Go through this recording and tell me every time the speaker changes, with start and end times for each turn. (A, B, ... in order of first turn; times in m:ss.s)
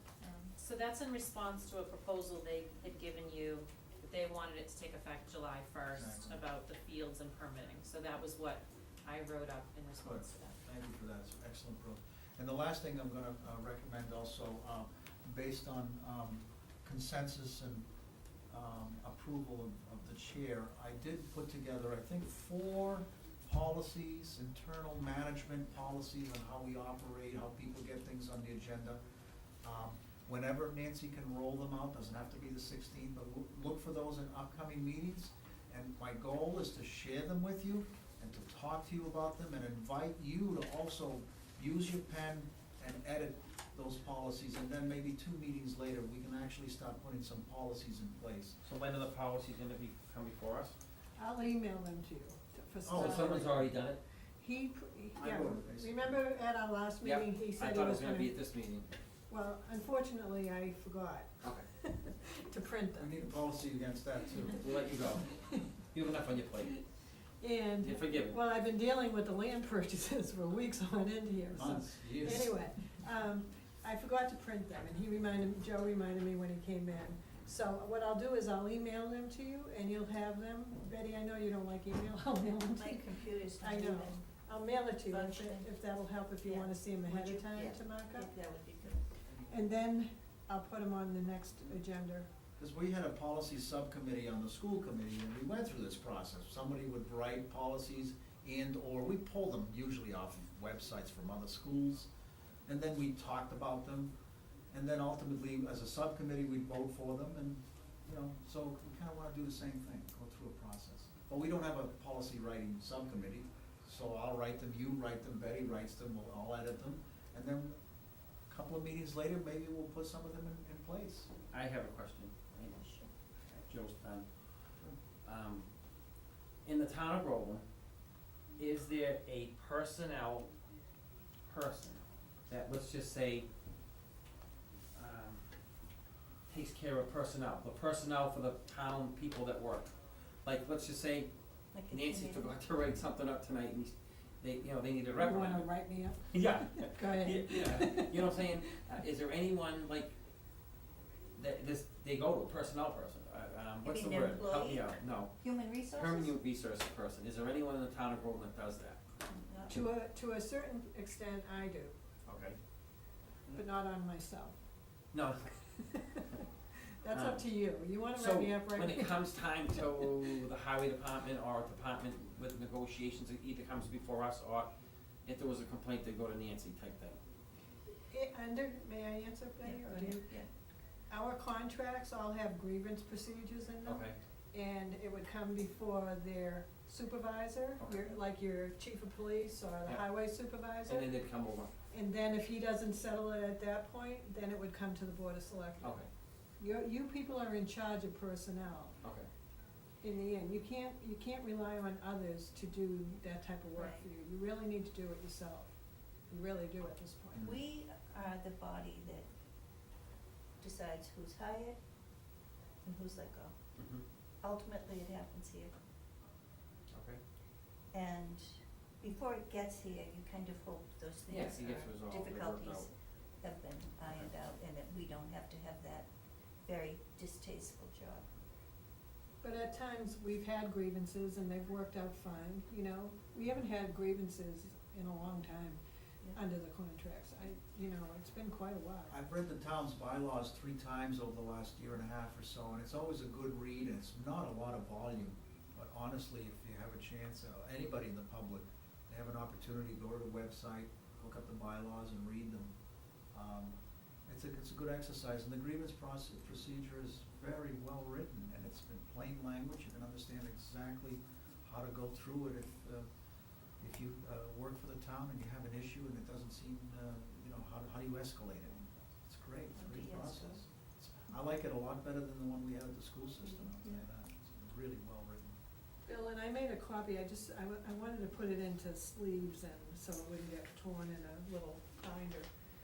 0:00.2-0:00.6 A
0:00.6-0:10.6 B
0:06.0-0:06.4 C
0:10.0-0:17.9 C
0:18.5-0:29.0 C
0:29.6-0:48.6 C
0:48.6-0:50.8 D
0:51.2-0:53.7 E
0:52.8-0:53.4 C
0:52.9-0:54.0 D
0:54.4-0:58.4 E
0:55.2-0:56.2 C
0:57.0-0:58.9 D
0:59.3-1:03.3 E
1:03.0-1:04.6 C
1:04.6-1:06.8 D
1:05.3-1:05.6 E
1:07.4-1:23.1 E
1:07.8-1:08.4 D
1:11.5-1:12.5 C
1:22.6-1:24.2 A
1:23.6-1:28.3 E
1:25.0-1:25.7 A
1:26.4-1:29.1 A
1:29.3-1:29.6 C
1:29.5-1:32.3 E
1:32.6-1:42.1 C
1:42.7-1:44.1 C
1:44.7-1:57.8 C
1:58.5-2:01.3 C
2:01.5-2:02.8 D
2:02.6-2:03.1 A
2:03.5-2:04.3 D
2:05.2-2:05.7 D
2:06.6-2:07.6 D
2:08.6-2:10.5 D
2:11.5-2:13.5 D
2:15.0-2:15.4 D
2:16.5-2:19.9 D
2:20.4-2:21.3 D
2:21.7-2:22.6 A
2:21.9-2:25.7 D
2:25.2-2:28.8 E
2:26.3-2:30.1 D
2:31.4-2:35.3 D
2:33.8-2:36.4 A
2:35.9-2:39.0 D
2:39.2-2:39.9 A
2:39.7-2:42.0 E
2:42.3-2:42.6 D
2:43.5-2:44.6 E
2:45.1-2:45.6 D
2:45.8-2:49.2 E
2:47.1-2:47.5 D
2:48.1-2:54.7 D
2:55.2-2:57.2 D
2:58.1-3:00.3 E
2:59.6-3:00.5 A
3:01.1-3:11.1 E
3:03.8-3:04.2 D
3:07.8-3:08.2 D
3:10.9-3:11.7 D
3:11.9-3:16.0 E
3:15.8-3:16.1 D
3:16.6-3:19.0 E
3:19.0-3:19.3 D
3:20.0-3:25.7 E
3:23.8-3:24.1 A
3:26.3-3:27.5 E
3:27.4-3:29.3 A
3:30.6-3:31.8 A
3:32.8-3:33.6 A
3:33.8-3:34.0 D
3:34.4-3:35.7 A
3:36.9-3:37.2 D
3:37.9-3:46.1 A
3:41.3-3:42.9 D
3:46.7-3:48.3 A
3:49.4-3:55.8 E
3:56.4-3:59.1 E
3:59.1-4:12.7 C
4:13.3-4:23.1 C
4:23.8-4:35.6 C
4:29.7-4:30.6 A
4:33.6-4:34.0 A
4:36.1-4:42.5 E